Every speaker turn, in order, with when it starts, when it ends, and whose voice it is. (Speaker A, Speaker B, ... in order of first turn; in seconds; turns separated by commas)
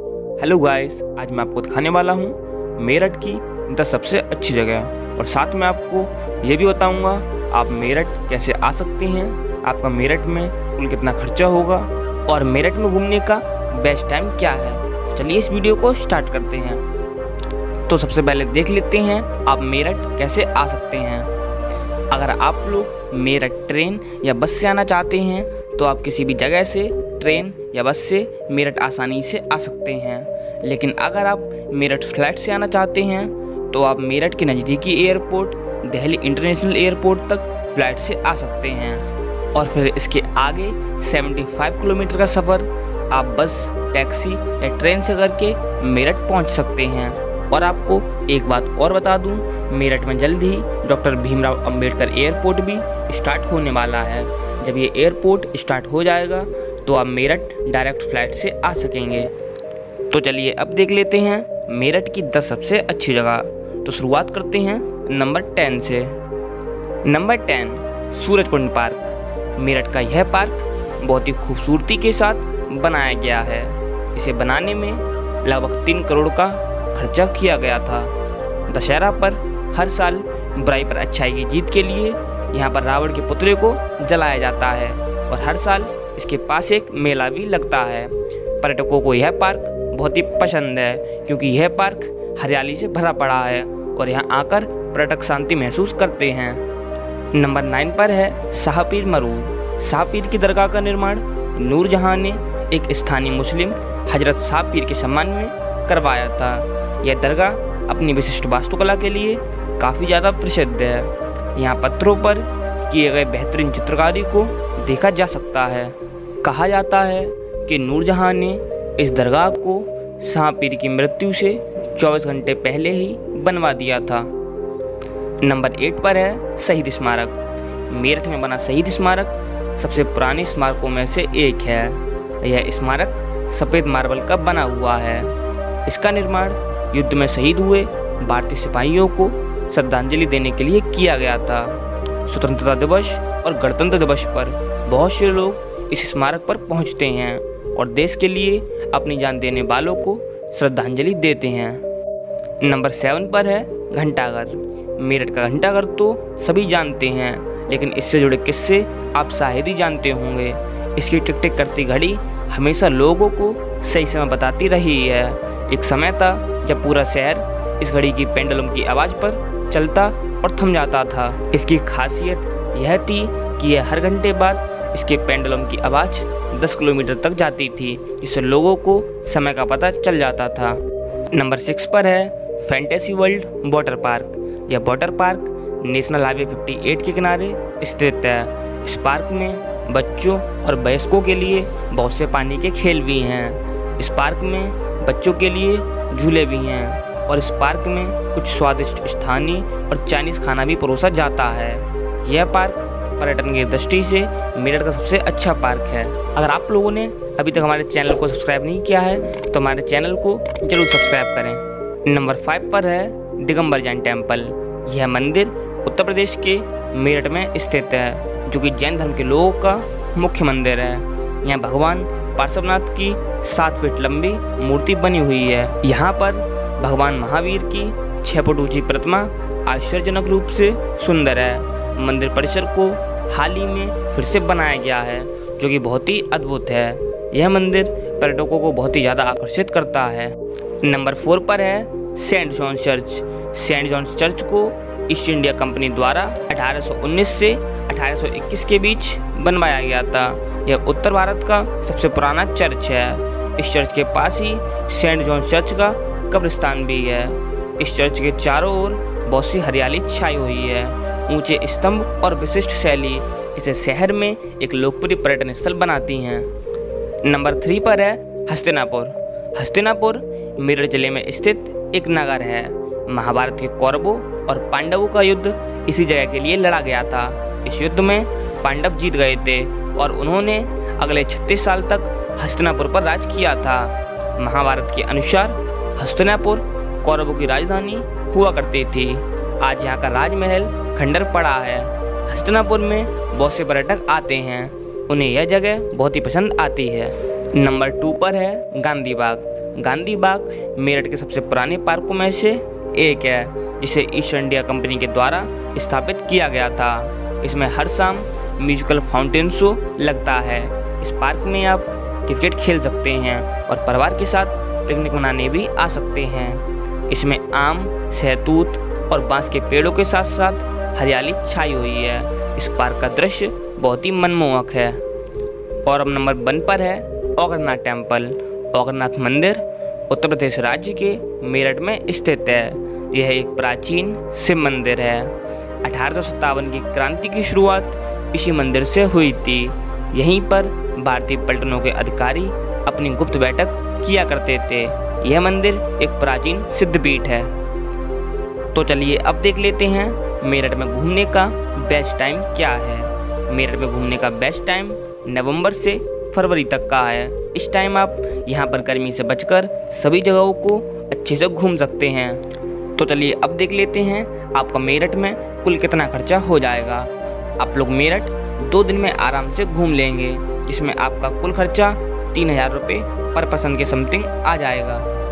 Speaker A: 0.4-16.8, Speaker A: 17.9-21.3, Speaker A: 22.1-59.3, Speaker A: 60.1-66.2, Speaker A: 67.0-78.1, Speaker A: 78.7-96.6, Speaker A: 97.3-124.3, Speaker A: 125.4-151.8, Speaker A: 152.6-266.5, Speaker A: 267.2-325.0, Speaker A: 325.8-347.5, Speaker A: 348.7-362.4, Speaker A: 362.9-375.1